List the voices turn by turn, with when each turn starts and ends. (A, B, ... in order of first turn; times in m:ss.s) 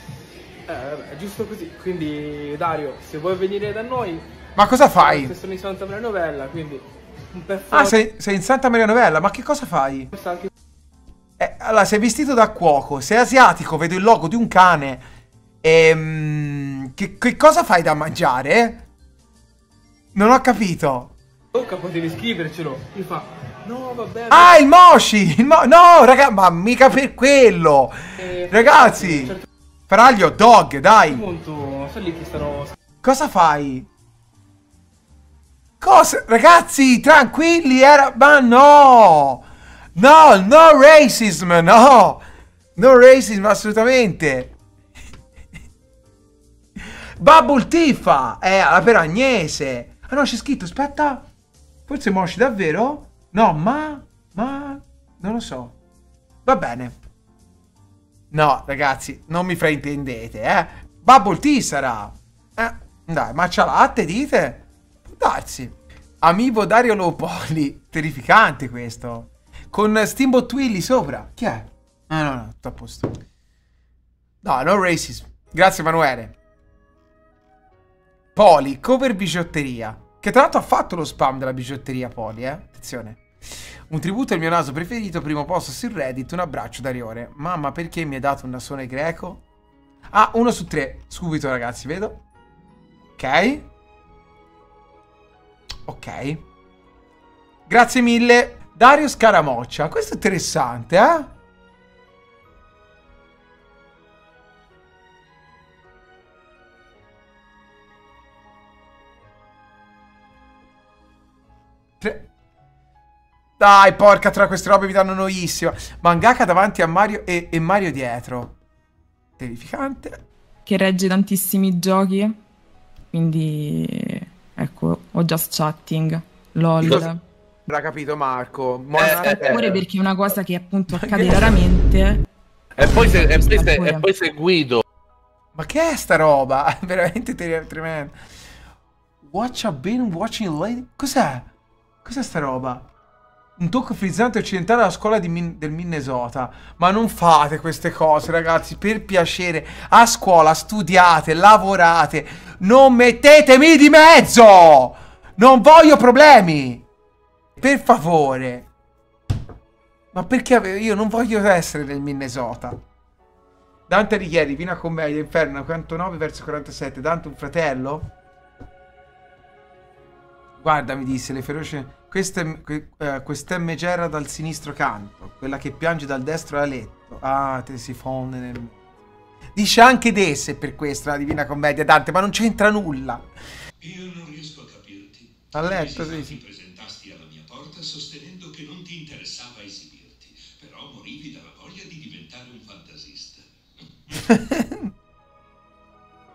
0:00.7-0:04.3 A
0:04.6-0:05.3 B
0:04.9-0:08.0 A
0:07.7-0:10.1 B
0:10.1-0:10.5 A
0:11.4-0:15.1 B
0:15.6-0:18.8 B
0:20.1-0:21.1 B
0:21.5-0:24.6 A
0:24.3-0:29.3 B
0:28.2-0:29.4 A
0:29.9-0:31.2 B
0:31.1-0:32.7 A
0:33.0-0:33.9 B
0:35.8-0:42.2 B
0:42.8-0:44.5 B
0:47.2-0:51.3 B
0:51.9-0:55.7 B
0:56.4-0:57.0 B
0:58.3-1:13.2 B
1:14.4-1:16.3 B
1:18.3-1:23.3 B
1:23.9-1:29.4 B
1:30.1-1:32.2 B
1:33.2-1:33.7 B
1:35.8-1:36.4 B
1:37.7-1:41.3 B
1:52.0-1:52.3 B
1:53.6-1:58.5 B
1:59.4-2:00.2 B
2:00.6-2:02.4 C
2:03.1-2:07.2 C
2:06.8-2:07.0 D
2:07.7-2:09.8 B
2:09.0-2:09.5 D
2:09.4-2:12.2 C
2:11.1-2:11.6 B
2:12.8-2:14.8 D
2:13.4-2:14.1 C
2:15.5-2:18.1 B
2:19.2-2:21.5 B
2:22.0-2:22.9 B
2:23.6-2:36.8 B
2:37.6-2:38.7 B
2:40.1-2:42.8 B
2:43.9-2:48.1 B
2:50.6-2:58.9 B
2:59.5-3:03.2 B
3:03.8-3:14.2 E
3:05.5-3:06.4 B
3:14.3-3:14.8 B